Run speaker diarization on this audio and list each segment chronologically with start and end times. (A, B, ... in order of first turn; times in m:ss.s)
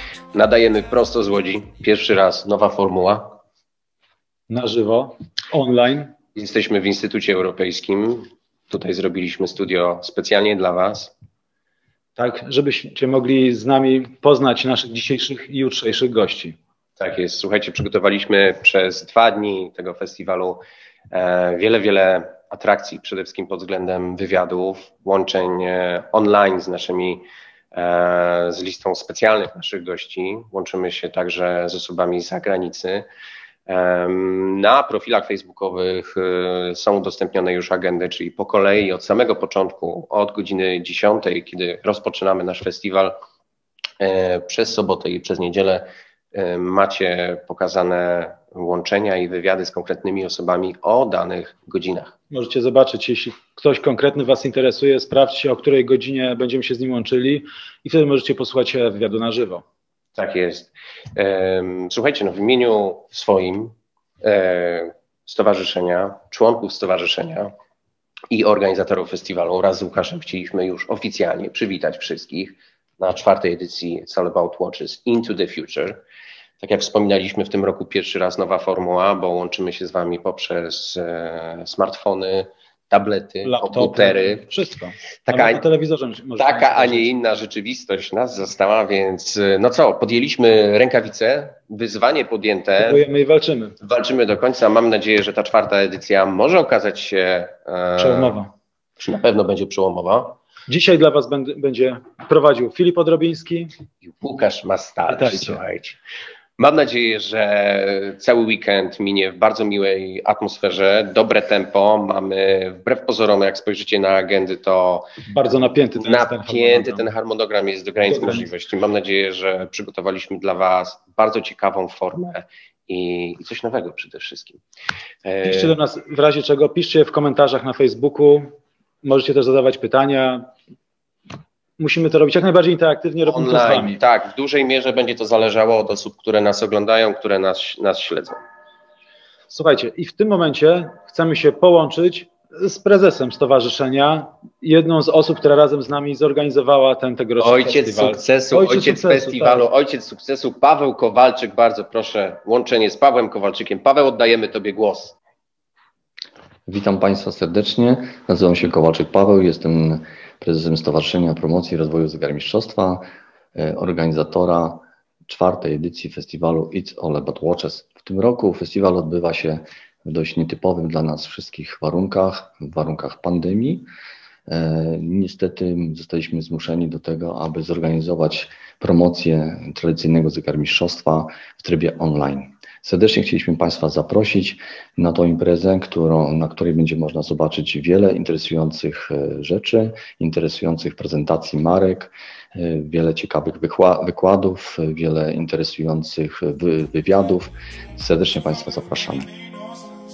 0:00.3-0:03.4 A
0:04.5-0:06.1 B
0:06.4-0:11.1 A
0:12.2-0:16.6 B
0:17.0-0:20.6 A
0:21.1-0:33.1 A
0:33.7-0:43.2 A
0:44.0-0:52.2 A
0:52.3-0:59.6 B
1:00.2-1:07.5 A
1:08.3-1:16.0 A
1:16.6-1:24.5 A
1:23.4-1:27.1 B
1:25.3-1:25.6 A
1:26.4-1:33.0 A
1:32.8-1:33.8 B
1:33.8-1:38.4 A
1:38.0-1:38.5 B
1:39.0-1:40.4 A
1:40.7-1:43.7 B
1:44.0-1:46.0 A
1:45.1-1:45.6 B
1:46.6-1:55.2 A
1:55.3-1:57.1 B
1:56.0-2:04.6 A
1:58.0-1:58.5 B
2:05.2-2:05.8 A
2:05.4-2:10.5 B
2:11.8-2:14.0 B
2:13.2-2:18.4 A
2:19.5-2:29.7 B
2:27.4-2:35.2 A
2:36.7-2:43.0 C
2:43.6-2:53.9 C
2:54.5-3:19.3 C